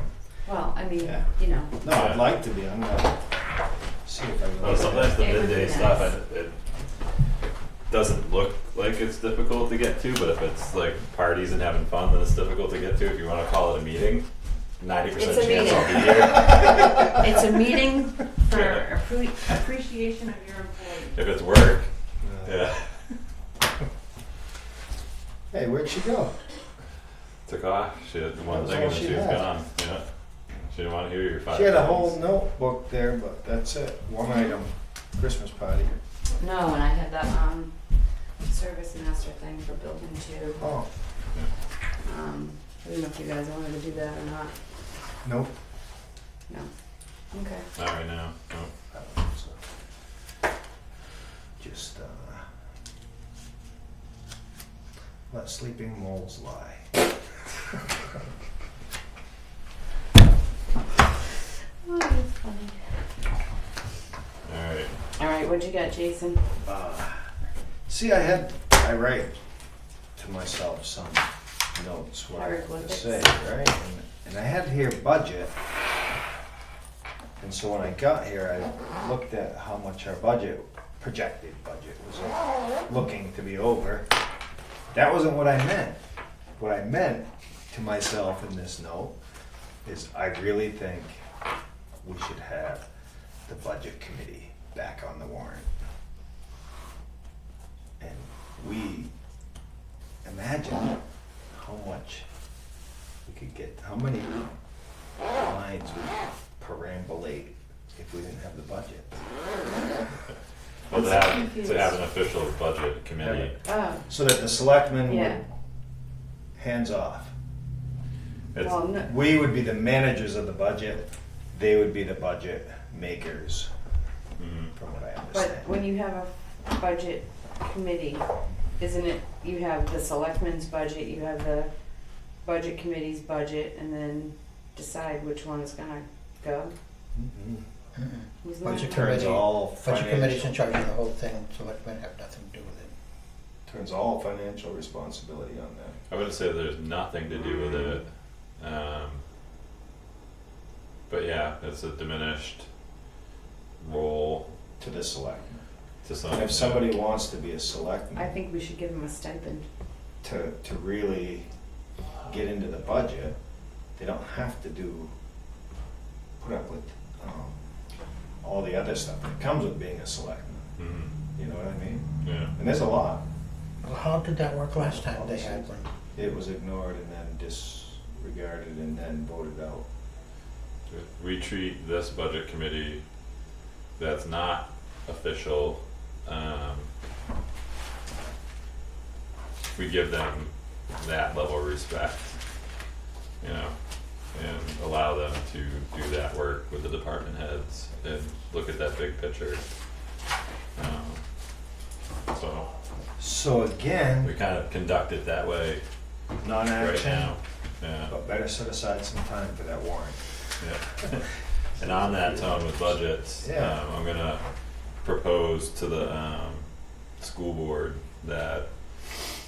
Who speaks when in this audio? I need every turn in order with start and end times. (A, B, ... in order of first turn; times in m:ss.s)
0:00.4-0:01.7 A
0:01.0-0:01.3 B
0:01.8-0:03.2 B
0:01.8-0:02.3 C
0:04.0-0:05.5 B
0:04.6-0:06.6 C
0:04.8-0:06.1 A
0:07.9-0:14.3 C
0:14.8-0:17.2 C
0:15.1-0:21.2 A
0:18.5-0:18.9 C
0:21.1-0:21.9 C
0:22.2-0:22.7 B
0:22.4-0:22.9 C
0:25.5-0:26.3 B
0:27.4-0:30.0 C
0:28.4-0:29.5 B
0:30.7-0:32.2 C
0:31.5-0:36.0 B
0:36.4-0:40.7 A
0:40.6-0:40.9 B
0:42.0-0:44.5 A
0:45.2-0:45.5 B
0:47.3-0:47.7 A
0:47.7-0:48.7 C
0:48.9-0:49.6 B
0:51.6-0:52.4 B
0:55.3-0:57.0 B
1:01.8-1:02.8 A
1:04.4-1:04.9 C
1:05.2-1:06.4 A
1:06.6-1:07.2 B
1:07.9-1:09.4 B
1:10.2-1:15.5 B
1:12.3-1:13.3 A
1:17.4-1:24.1 B
1:24.9-1:26.0 B
1:26.6-1:29.2 B
1:29.8-1:31.2 B
1:32.0-1:32.8 B
1:33.4-1:35.7 B
1:38.0-1:39.1 B
1:40.2-1:41.0 B
1:41.5-1:42.2 B
1:43.2-1:44.5 B
1:45.3-1:49.2 B
1:50.9-1:53.6 C
1:50.9-1:52.0 A
1:53.2-1:53.5 B
1:53.6-1:54.0 A
1:54.1-1:55.4 B
1:55.0-1:55.4 A
1:56.6-1:57.3 B
1:58.6-1:59.1 A
1:59.0-2:03.7 B
2:04.4-2:04.7 C
2:04.7-2:05.7 B
2:05.3-2:08.2 A
2:08.8-2:11.7 A
2:12.4-2:16.7 A
2:17.1-2:17.6 B
2:18.0-2:22.9 D
2:18.4-2:19.2 A
2:18.6-2:20.5 B
2:23.6-2:26.0 B
2:26.1-2:28.1 C
2:28.6-2:29.2 C
2:31.1-2:32.7 C
2:33.8-2:34.5 C
2:34.8-2:35.6 B
2:36.0-2:37.0 C
2:36.3-2:38.3 B
2:38.1-2:39.7 A
2:40.2-2:41.5 B
2:42.2-2:43.3 B
2:44.0-2:45.1 B
2:46.4-2:47.5 B
2:48.4-2:50.6 B
2:50.8-2:51.1 C
2:51.3-2:53.2 B
2:52.2-2:52.5 C
2:53.8-2:55.9 D
2:54.8-2:59.8 B
3:00.9-3:03.0 C
3:04.0-3:06.9 C
3:09.8-3:12.4 C
3:13.4-3:13.7 C
3:14.3-3:19.6 C
3:20.8-3:21.2 C
3:22.3-3:22.7 C
3:23.2-3:24.3 B
3:24.2-3:25.8 C
3:26.4-3:27.4 B
3:26.7-3:28.1 C
3:28.1-3:30.2 B
3:30.6-3:31.2 C
3:31.8-3:34.4 C
3:31.8-3:33.8 B
3:35.0-3:36.7 C
3:37.2-3:38.6 C